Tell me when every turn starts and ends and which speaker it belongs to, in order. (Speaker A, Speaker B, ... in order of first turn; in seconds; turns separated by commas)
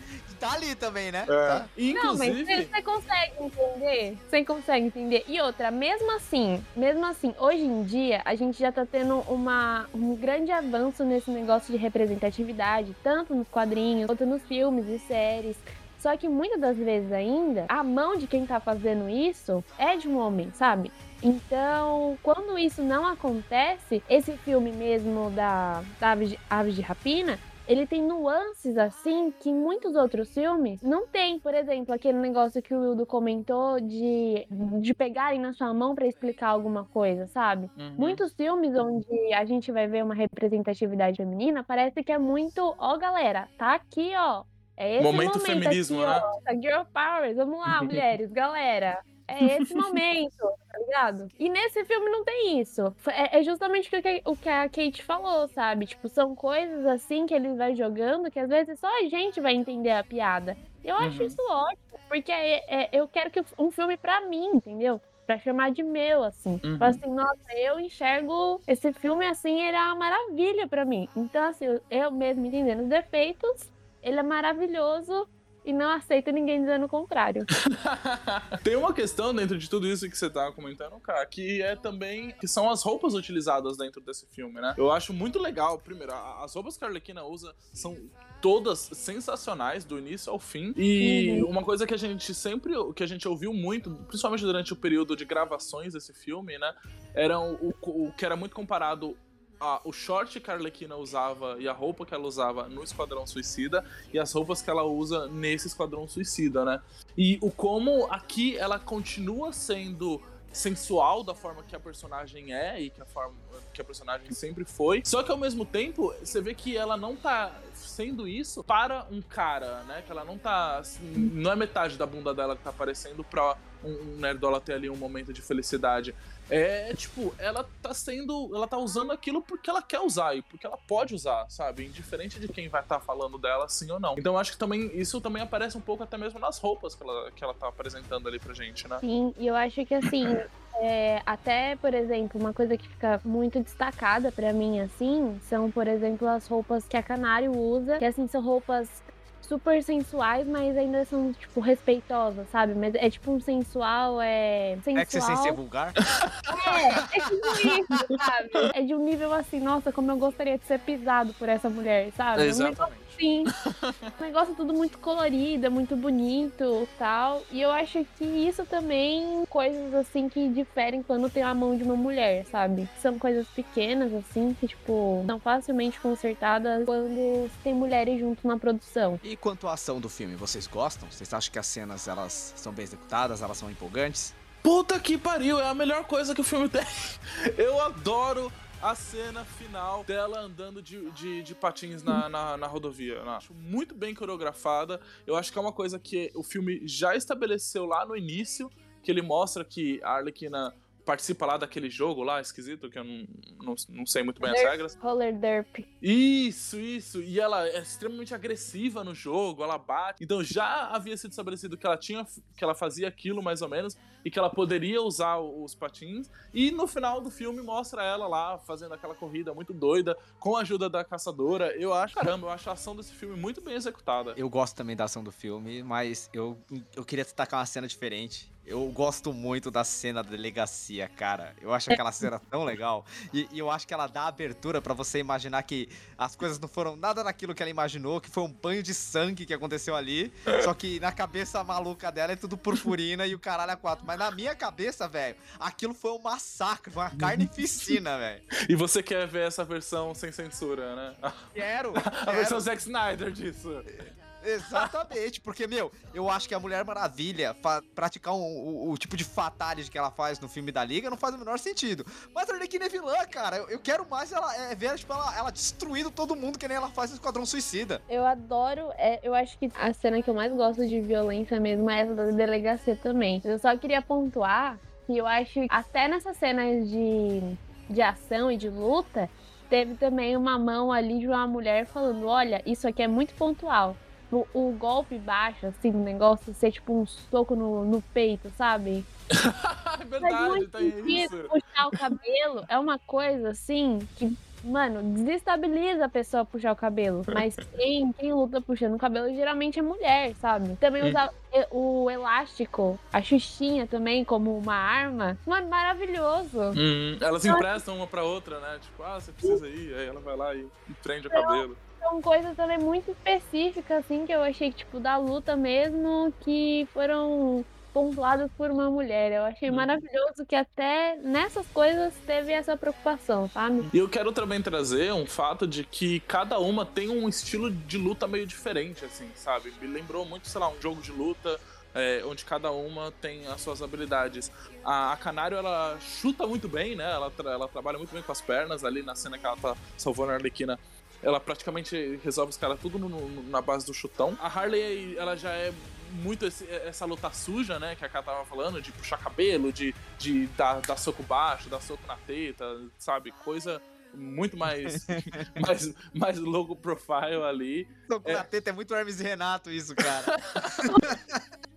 Speaker A: 0.3-1.7, Speaker B: 1.3-2.7, Speaker C: 1.9-77.5, Speaker B: 37.8-38.2, Speaker B: 45.0-46.2, Speaker B: 47.7-48.0, Speaker B: 61.0-61.4, Speaker B: 66.6-67.0, Speaker B: 77.7-139.0, Speaker C: 91.0-91.5, Speaker C: 139.0-155.6, Speaker A: 154.9-156.0, Speaker B: 156.1-156.4, Speaker C: 156.5-163.5, Speaker B: 162.3-164.1, Speaker C: 164.2-179.2, Speaker A: 179.2-184.3, Speaker B: 184.6-204.9, Speaker C: 204.4-205.9, Speaker B: 206.0-224.4, Speaker A: 224.3-248.4, Speaker B: 247.1-248.0, Speaker B: 248.7-253.9, Speaker A: 251.5-252.6, Speaker A: 254.4-268.0, Speaker C: 268.1-289.1, Speaker B: 289.3-292.0, Speaker C: 290.2-306.8, Speaker B: 306.7-311.8, Speaker C: 307.5-307.8, Speaker C: 311.3-323.9, Speaker B: 323.9-358.4, Speaker A: 354.9-355.7, Speaker A: 358.1-361.4, Speaker B: 360.0-360.9